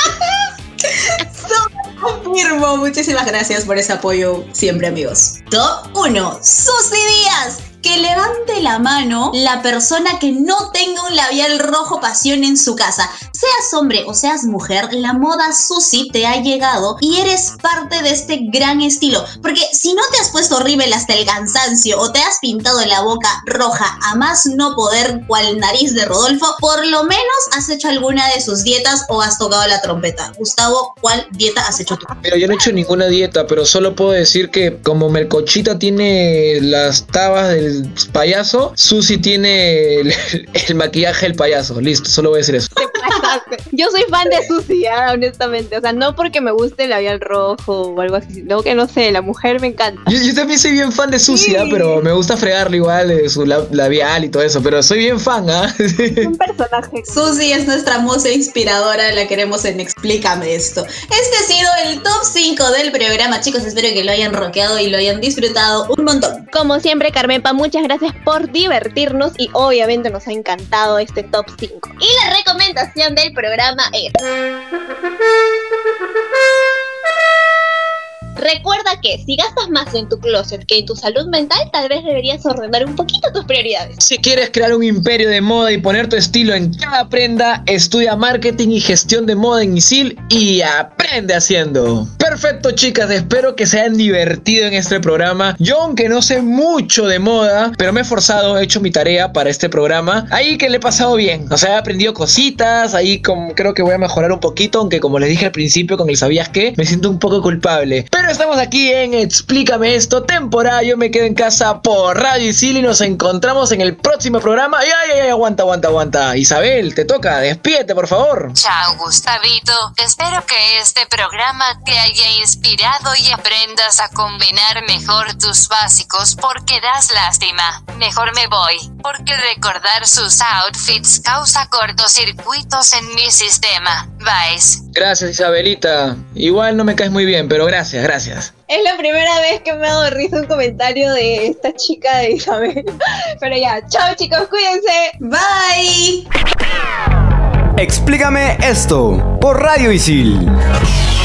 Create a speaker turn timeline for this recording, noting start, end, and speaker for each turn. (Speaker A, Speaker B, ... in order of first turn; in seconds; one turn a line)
Speaker A: 0.9-32.1
Speaker B: 32.2-42.7
Speaker C: 42.8-50.1
Speaker B: 50.1-56.3
Speaker C: 51.2-52.0
Speaker C: 56.2-57.5
Speaker A: 57.1-66.5
Speaker C: 66.5-74.2
Speaker C: 78.4-84.0
Speaker B: 84.0-118.5
Speaker D: 118.5-134.8
Speaker B: 134.9-138.5
Speaker C: 138.7-142.8
Speaker C: 143.4-145.1
Speaker A: 145.2-146.2
Speaker E: 147.8-150.5